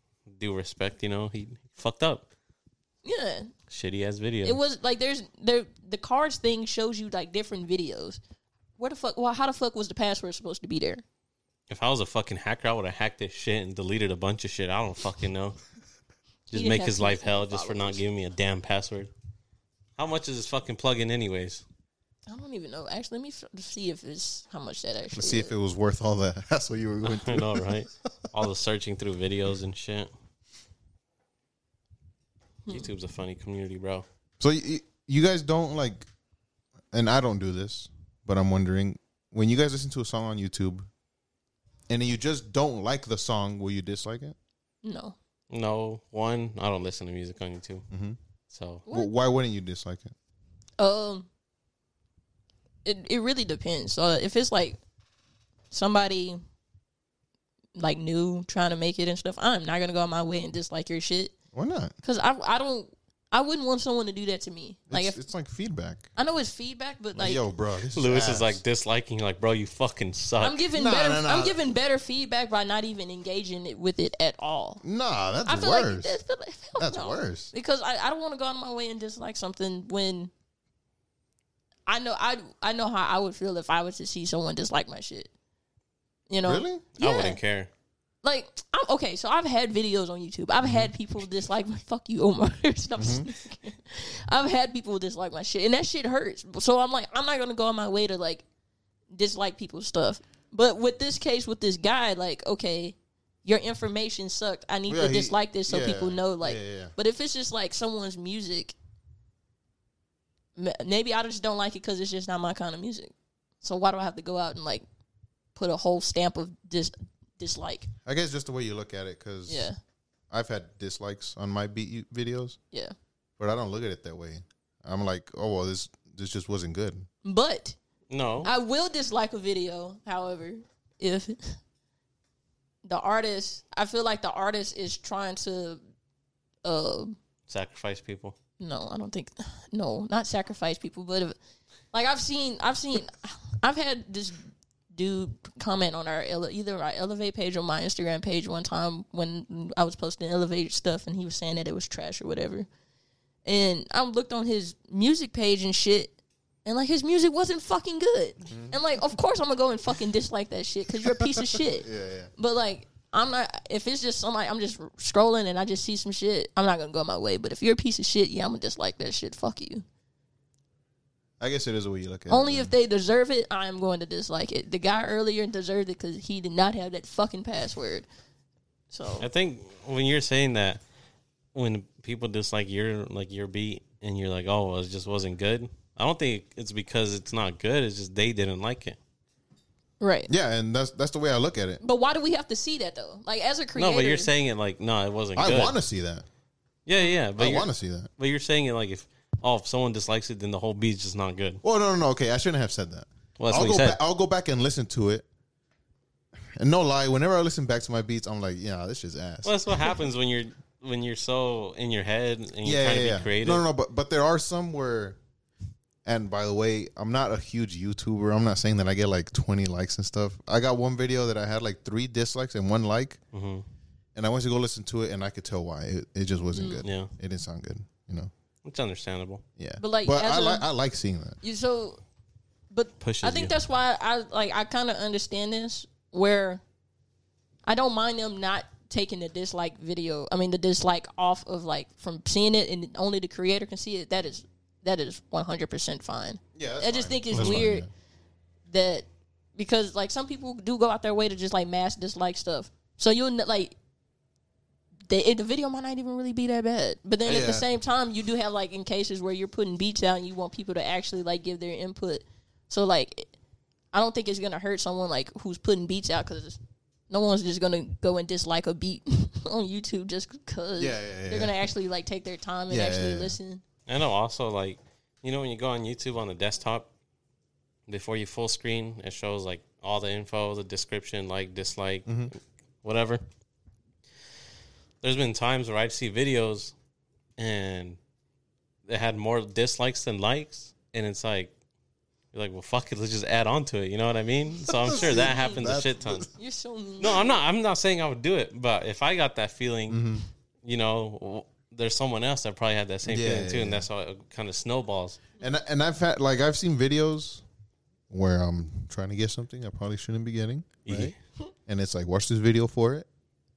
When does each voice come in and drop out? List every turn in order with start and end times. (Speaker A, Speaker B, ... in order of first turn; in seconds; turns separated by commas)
Speaker A: 0.3-2.3, Speaker B: 3.0-3.5, Speaker A: 3.7-4.6, Speaker B: 4.4-8.2, Speaker B: 8.8-11.0, Speaker A: 11.7-15.6, Speaker A: 16.5-19.1, Speaker B: 16.5-18.0, Speaker A: 20.0-21.6, Speaker B: 22.3-25.5, Speaker C: 25.1-27.9, Speaker A: 27.0-30.1, Speaker A: 32.7-34.0, Speaker C: 34.4-36.1, Speaker C: 36.9-40.9, Speaker C: 41.9-44.4, Speaker B: 44.8-45.1, Speaker A: 45.5-47.8, Speaker C: 47.9-48.2, Speaker A: 48.5-48.8, Speaker B: 48.9-49.1, Speaker C: 48.9-50.1, Speaker B: 50.8-51.3, Speaker B: 52.8-54.8, Speaker B: 55.7-56.4, Speaker B: 57.8-61.3, Speaker C: 61.5-61.9, Speaker B: 62.0-65.2, Speaker C: 64.9-66.1, Speaker B: 66.2-67.4, Speaker C: 67.1-68.6, Speaker A: 67.9-70.6, Speaker B: 70.4-74.8, Speaker C: 70.7-71.6, Speaker C: 74.8-76.2, Speaker B: 75.5-80.3, Speaker C: 76.8-77.5, Speaker B: 81.9-85.3, Speaker B: 86.3-87.4, Speaker C: 86.4-86.9, Speaker A: 87.0-87.7, Speaker B: 88.2-98.4, Speaker C: 90.6-90.9, Speaker C: 93.0-93.3, Speaker B: 99.1-108.7, Speaker C: 104.9-106.9, Speaker B: 110.5-114.8, Speaker B: 115.5-117.9, Speaker C: 118.0-119.7, Speaker B: 119.5-119.8, Speaker C: 120.3-122.6, Speaker C: 123.4-127.1, Speaker B: 127.2-127.8, Speaker A: 128.1-128.5, Speaker B: 128.4-131.6, Speaker B: 132.8-135.8, Speaker B: 136.6-137.2, Speaker A: 137.5-138.3, Speaker B: 138.6-141.4, Speaker B: 141.9-152.7, Speaker B: 153.4-169.8, Speaker C: 158.5-158.8, Speaker C: 161.0-162.3, Speaker C: 171.4-172.7, Speaker B: 172.3-178.1, Speaker B: 178.9-179.2, Speaker A: 179.2-180.8, Speaker A: 181.5-189.0, Speaker B: 190.0-190.3, Speaker C: 190.3-191.8, Speaker B: 191.8-194.3, Speaker A: 193.8-195.8, Speaker C: 195.3-196.2, Speaker A: 196.8-201.6, Speaker C: 197.4-198.1, Speaker C: 201.6-205.2, Speaker A: 203.4-204.0, Speaker C: 206.6-209.6, Speaker A: 209.4-213.6, Speaker C: 212.6-215.2, Speaker C: 216.0-223.2, Speaker A: 223.3-223.6, Speaker C: 224.1-228.3, Speaker B: 226.5-226.8, Speaker A: 226.8-227.1, Speaker A: 228.6-229.4, Speaker C: 229.6-231.4, Speaker B: 229.8-230.7, Speaker B: 231.4-232.0, Speaker B: 232.7-236.6, Speaker A: 233.0-233.5, Speaker B: 237.7-247.9, Speaker C: 246.5-247.9, Speaker B: 248.7-253.7, Speaker B: 255.1-263.3, Speaker C: 257.2-257.6, Speaker B: 263.9-266.6, Speaker B: 267.1-273.6, Speaker C: 270.8-271.7, Speaker C: 272.7-273.4, Speaker A: 273.9-276.9, Speaker A: 277.9-283.2, Speaker C: 282.1-282.3, Speaker A: 285.0-286.7, Speaker A: 287.4-288.0, Speaker A: 288.9-291.5, Speaker A: 292.3-296.3, Speaker C: 294.7-296.3, Speaker B: 294.9-295.6, Speaker B: 296.4-297.3, Speaker A: 297.0-300.0, Speaker C: 299.9-300.2, Speaker A: 300.6-305.2, Speaker C: 303.0-303.9, Speaker C: 305.4-307.4, Speaker C: 308.1-311.1, Speaker A: 310.9-311.1, Speaker C: 311.6-313.1